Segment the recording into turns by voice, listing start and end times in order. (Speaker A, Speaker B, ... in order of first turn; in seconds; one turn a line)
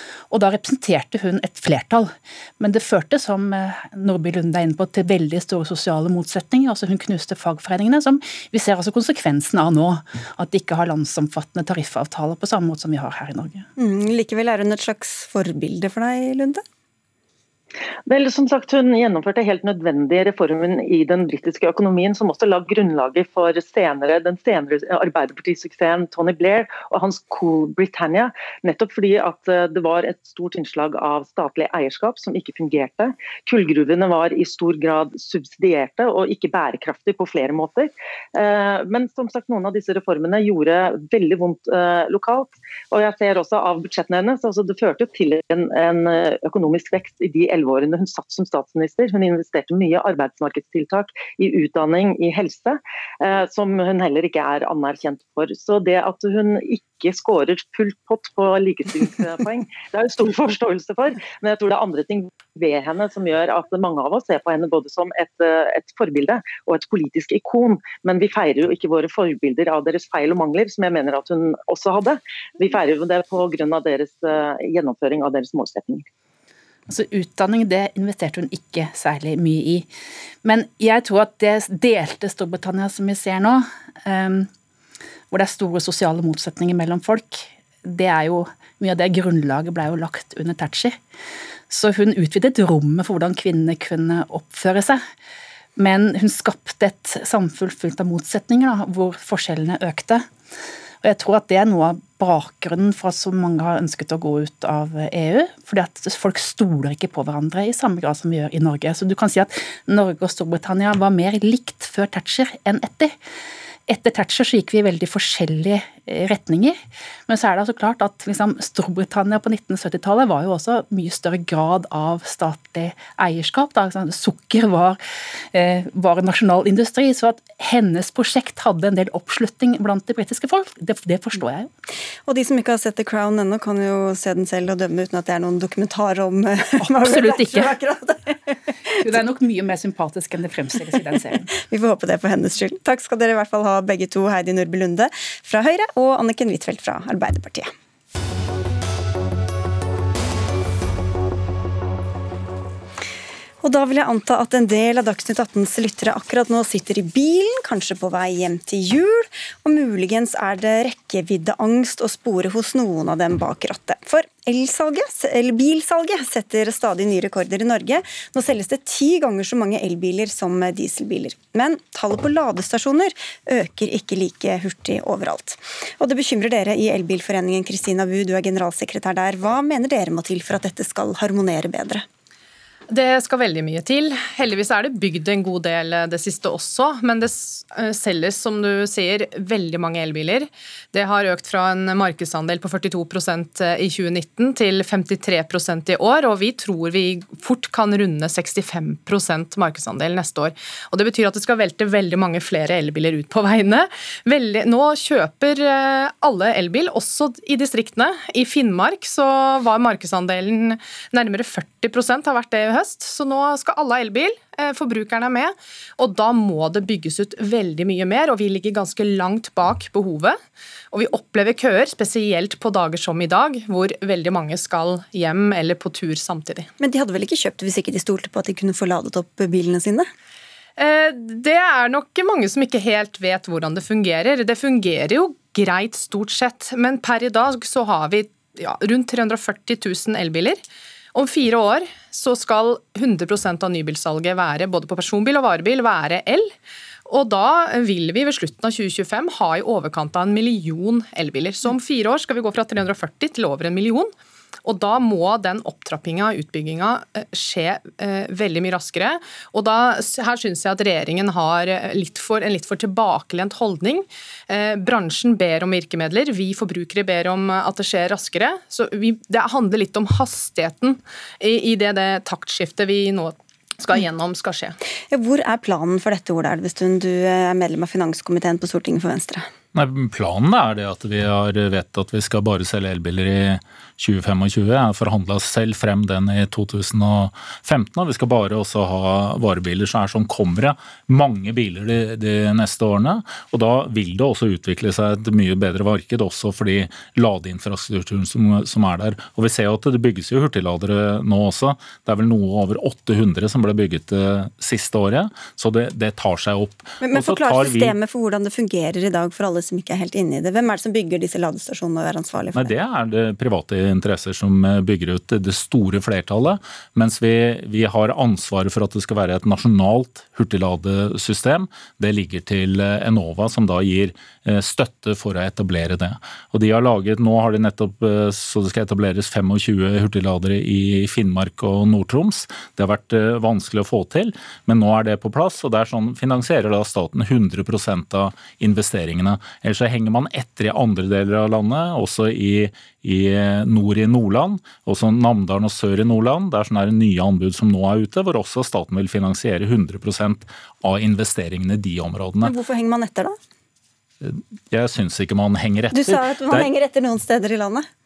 Speaker A: 0.3-13.7
Speaker B: 13.8-16.6
Speaker C: 18.1-76.1
Speaker A: 76.9-79.9
Speaker A: 80.4-84.5
Speaker A: 85.3-91.0
Speaker A: 91.7-95.0
Speaker A: 95.8-100.3
Speaker A: 101.0-113.1
Speaker A: 113.9-125.0
Speaker A: 125.5-131.7
Speaker B: 132.3-138.4
Speaker A: 137.0-137.7
Speaker A: 139.0-141.5
Speaker B: 141.6-147.7
Speaker B: 153.6-182.1
Speaker D: 182.9-220.4
Speaker D: 220.9-226.7
Speaker B: 226.8-230.1
Speaker D: 230.8-240.6
Speaker D: 241.1-246.5
Speaker D: 247.1-254.1
Speaker D: 254.6-274.8
Speaker B: 275.1-279.5
Speaker E: 279.8-307.9
Speaker B: 307.0-312.7
Speaker E: 312.6-352.5
Speaker B: 352.4-353.4
Speaker E: 354.2-356.7
Speaker B: 355.9-357.9